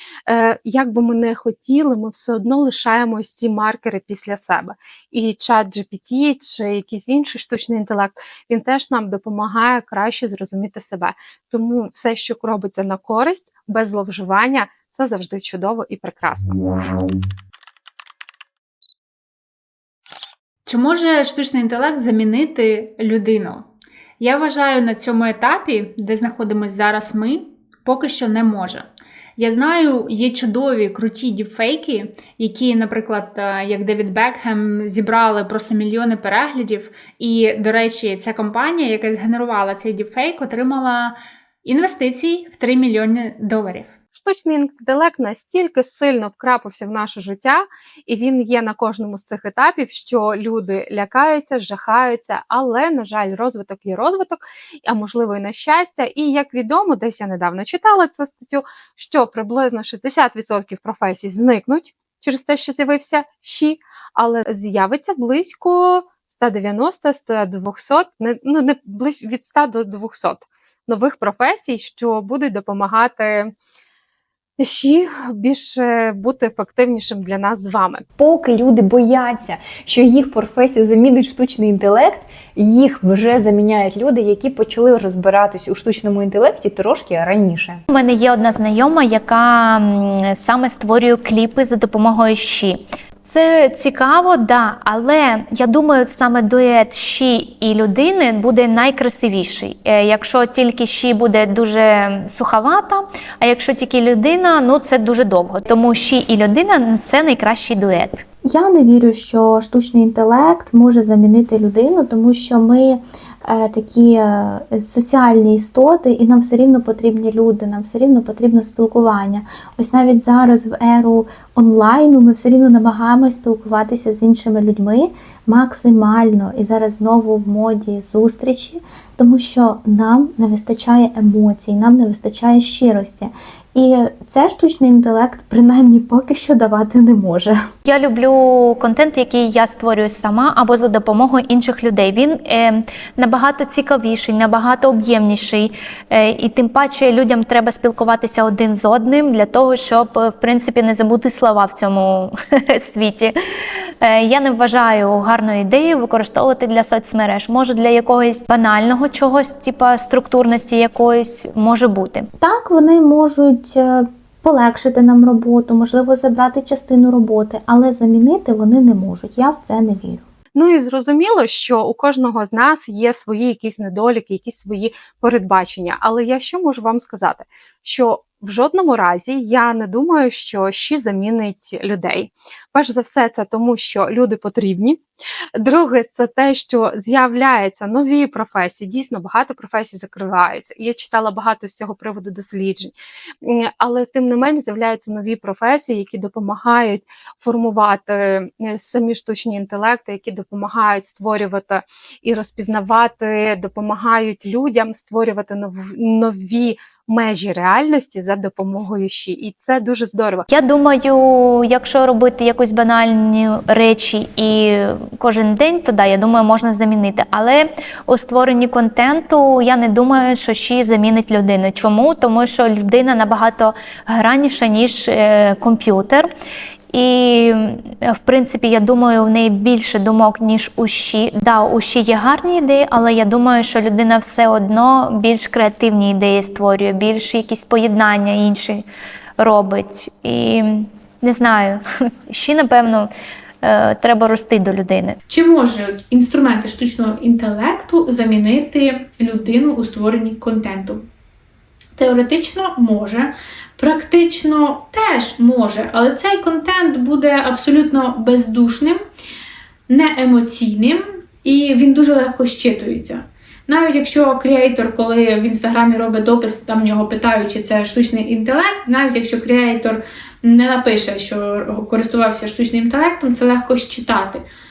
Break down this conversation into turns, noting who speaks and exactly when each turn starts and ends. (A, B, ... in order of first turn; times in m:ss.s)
0:00.3-0:16.6 A
0:20.7-0:23.7 B
0:24.2-0:28.9 B
0:29.4-0:43.9 B
0:44.1-1:13.5 A
1:14.6-1:18.1 A
1:18.2-1:27.8 C
1:27.9-1:48.2 D
1:48.5-2:17.6 E
2:17.8-2:33.3 D
2:34.0-2:42.3 D
2:42.4-2:50.2 E
2:50.5-3:05.0 A
3:05.6-3:30.4 A
3:30.5-3:46.3 D
3:46.9-3:58.8 D
3:59.4-4:03.1 D
4:03.6-4:05.2 D
4:05.3-4:11.1 F
4:12.0-4:19.0 F
4:19.9-4:34.4 F